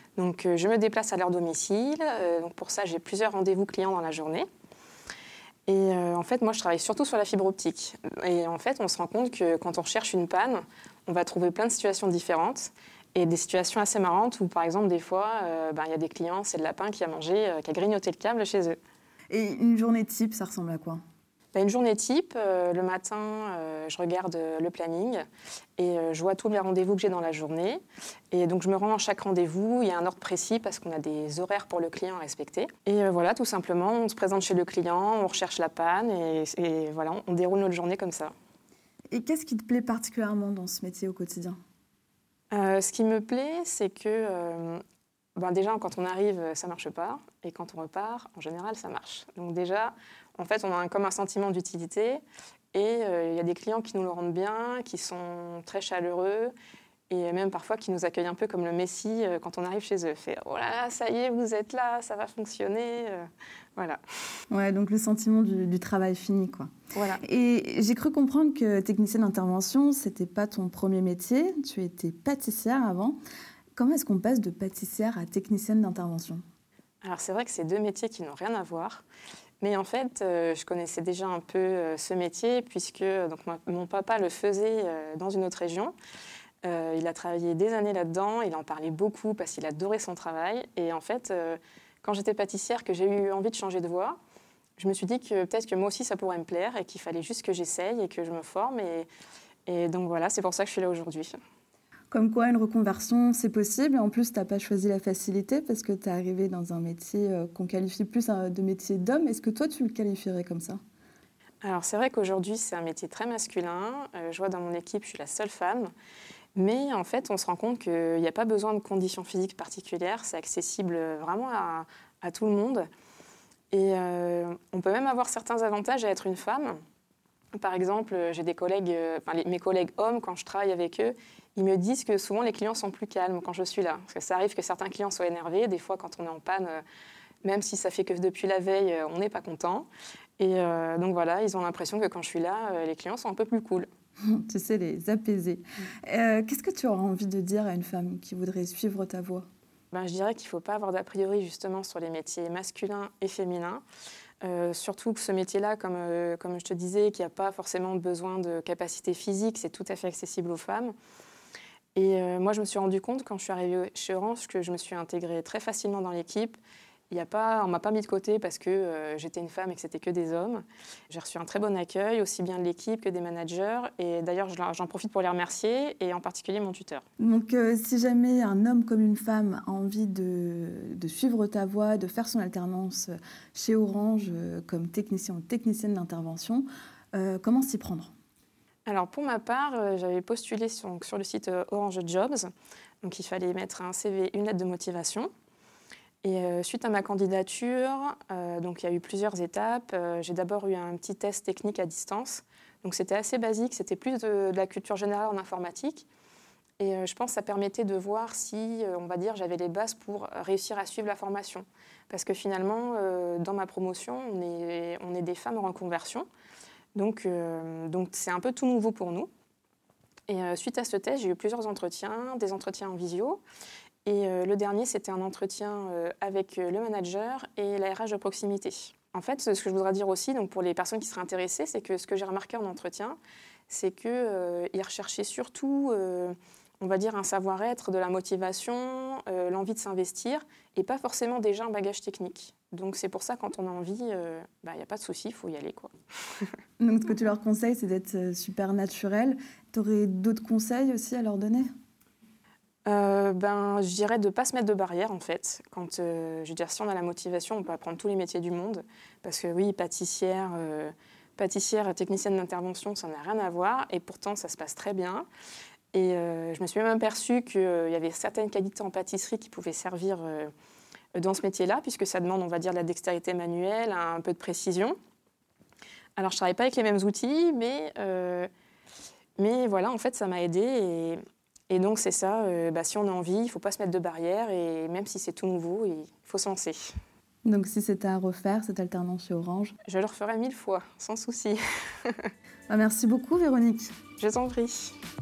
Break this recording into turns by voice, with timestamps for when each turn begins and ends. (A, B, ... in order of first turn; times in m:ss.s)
0:00.2-0:04.5 A
0:05.7-0:18.8 A
0:19.3-0:21.0 B
0:21.5-0:25.2 A
0:25.8-0:38.3 A
0:39.1-0:41.6 B
0:42.5-0:44.8 A
0:45.4-0:52.2 A
0:52.7-0:56.5 A
0:57.1-1:04.0 A
1:04.5-1:13.2 B
1:06.9-1:07.2 A
1:13.8-1:16.4 B
1:17.0-1:19.0 A
1:19.6-1:26.0 A
1:26.6-1:34.2 A
1:34.8-1:39.1 A
1:39.7-1:41.4 A
1:42.1-1:50.8 B
1:51.6-1:55.9 A
1:56.6-2:02.9 A
2:03.7-2:06.8 A
2:07.6-2:16.8 A
2:17.4-2:19.9 A
2:20.4-2:23.9 A
2:24.3-2:29.5 B
2:29.9-2:33.8 A
2:34.4-2:40.9 A
2:42.0-2:46.6 A
2:47.1-2:57.0 A
2:57.2-3:08.1 B
3:08.9-3:12.5 A
3:13.0-3:15.3 A
3:16.2-3:26.1 A
3:26.8-3:36.3 A
3:37.0-3:39.3 A
3:40.3-3:43.4 A
3:44.0-3:53.2 A
3:53.7-4:06.5 A
4:06.8-4:11.7 B
4:12.9-4:25.3 A
4:25.9-4:30.5 A
4:31.2-4:35.0 A
4:36.2-4:38.5 A
4:39.4-4:47.0 A
4:47.4-4:49.8 B
4:49.8-4:52.3 A
4:52.7-4:54.0 B
4:54.2-4:55.0 A